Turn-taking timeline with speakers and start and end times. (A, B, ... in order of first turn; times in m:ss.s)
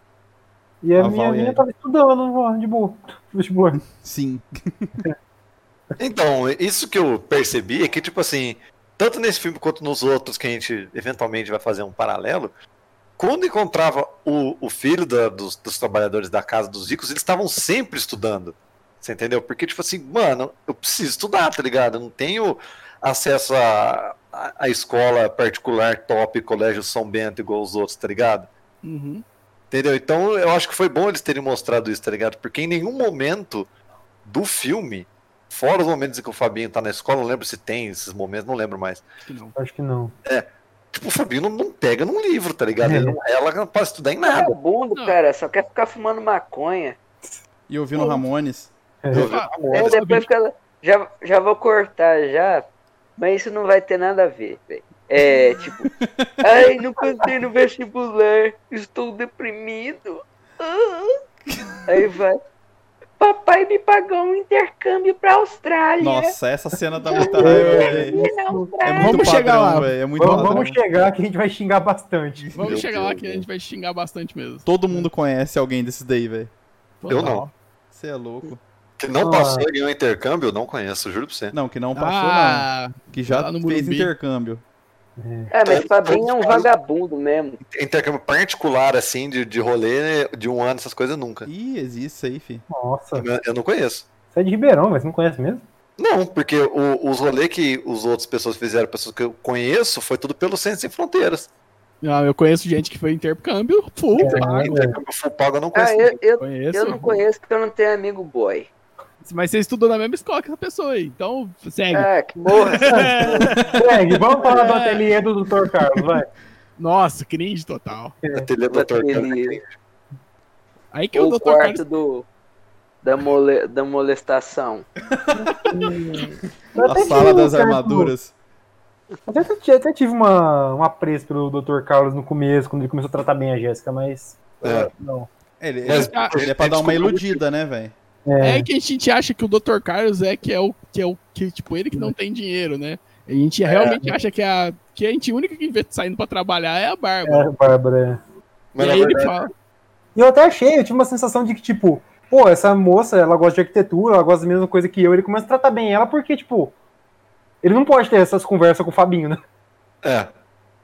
0:00.8-0:03.8 A
0:01.0-0:01.6 B
0:03.9-0:05.0 B
0:06.0-0:12.5 C
0:13.2-0:28.5 C
0:28.8-0:29.2 D
0:29.7-0:33.7 C
0:34.2-0:39.1 C
0:39.3-0:39.6 D
0:39.6-0:40.1 A
0:40.3-0:44.6 C
0:42.8-0:43.2 A
0:44.2-0:47.0 E
0:47.7-0:48.7 B
0:49.1-0:50.0 C
0:49.1-0:50.3 D
0:49.7-0:52.7 E
0:53.2-0:55.9 E
0:56.0-0:56.3 B
0:56.4-1:01.2 E
1:01.9-1:02.4 E
1:03.2-1:06.3 E
1:06.0-1:08.2 B
1:07.0-1:09.4 E
1:07.3-1:08.8 A
1:08.8-1:10.8 B
1:09.0-1:10.6 D
1:10.2-1:12.7 A
1:12.5-1:15.1 D
1:12.6-1:13.5 C
1:14.6-1:16.5 B
1:17.0-1:17.5 D
1:17.1-1:17.5 C
1:17.9-1:18.6 B
1:19.0-1:21.6 C
1:19.2-1:19.7 A
1:21.5-1:24.6 B
1:22.0-1:24.1 D
1:25.2-1:25.5 A
1:25.5-1:27.6 E
1:25.6-1:26.7 C
1:27.6-1:31.5 C
1:31.5-1:32.7 B
1:32.7-1:33.3 A
1:33.2-1:34.1 C
1:34.3-1:35.6 A
1:36.0-1:41.5 C
1:42.0-1:44.8 D
1:44.2-1:45.0 A
1:44.2-1:46.2 C
1:45.7-1:48.7 E
1:46.4-1:47.2 D
1:49.2-1:55.0 D
1:51.9-1:53.5 E
1:53.7-1:56.3 A
1:56.8-1:58.2 D
1:58.3-1:59.7 C
1:58.7-1:59.6 E
2:00.9-2:01.8 D
2:01.1-2:02.3 E
2:03.0-2:04.9 E
2:05.2-2:05.8 B
2:05.4-2:08.1 A
2:06.8-2:08.3 B
2:09.3-2:15.3 A
2:14.6-2:14.9 C
2:15.6-2:17.9 B
2:15.8-2:17.4 C
2:15.9-2:16.4 D
2:18.3-2:18.7 A
2:18.4-2:27.5 D
2:23.7-2:24.0 C
2:27.2-2:28.2 A
2:28.7-2:29.4 C
2:28.8-2:29.5 D
2:30.2-2:36.8 A
2:37.6-2:39.4 A
2:40.0-2:40.3 C